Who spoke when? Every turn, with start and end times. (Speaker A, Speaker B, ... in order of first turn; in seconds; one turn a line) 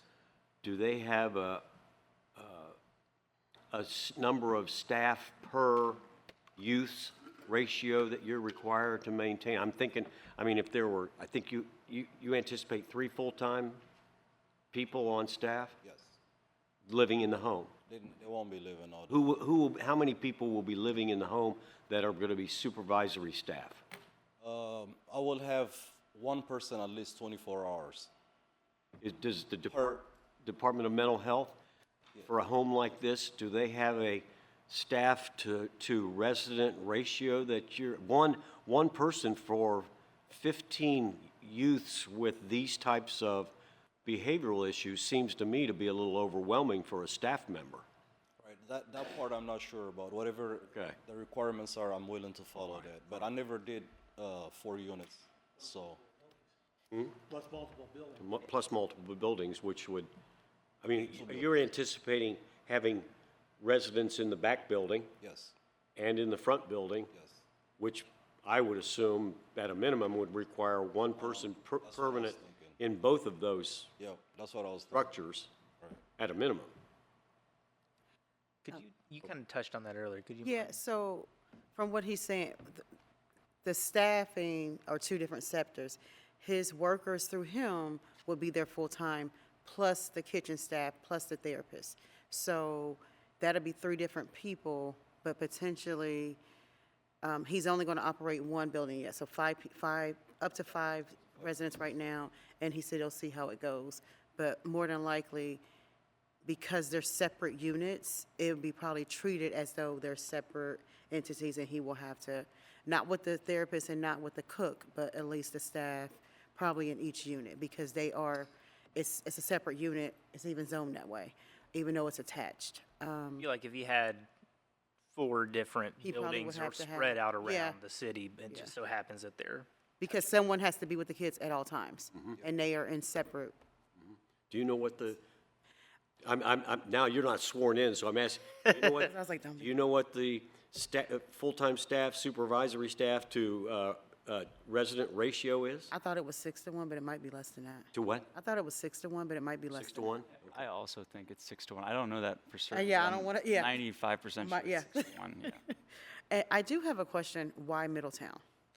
Speaker A: 0.6-1.6
Speaker A: 2.4-2.8
Speaker A: 3.7-6.0
Speaker A: 6.5-13.8
Speaker A: 14.7-15.8
Speaker B: 15.8-16.2
Speaker A: 16.9-17.7
Speaker B: 17.9-19.2
Speaker A: 19.1-23.8
Speaker B: 24.4-28.1
Speaker A: 29.0-31.6
Speaker B: 29.7-30.0
Speaker A: 32.2-43.5
Speaker A: 44.0-47.9
Speaker B: 48.4-56.0
Speaker A: 50.7-51.0
Speaker A: 56.9-57.2
Speaker A: 58.1-60.1
Speaker A: 60.8-65.1
Speaker B: 65.2-65.5
Speaker A: 66.0-67.1
Speaker B: 67.1-67.4
Speaker A: 67.8-73.9
Speaker B: 71.2-72.8
Speaker B: 74.0-75.1
Speaker A: 74.9-75.5
Speaker A: 76.2-76.7
Speaker C: 78.6-80.8
Speaker D: 80.4-82.8
Speaker D: 83.6-96.4
Speaker D: 97.2-105.6
Speaker D: 106.4-123.5
Speaker C: 123.4-124.3
Speaker C: 125.1-129.7
Speaker D: 126.0-127.8
Speaker D: 130.0-133.5
Speaker A: 134.5-135.2
Speaker A: 136.2-145.9
Speaker D: 139.0-139.7
Speaker D: 145.9-150.2
Speaker A: 147.9-148.3
Speaker A: 149.7-150.5
Speaker E: 150.5-155.6
Speaker D: 152.7-153.8
Speaker D: 154.4-155.7
Speaker D: 156.3-158.4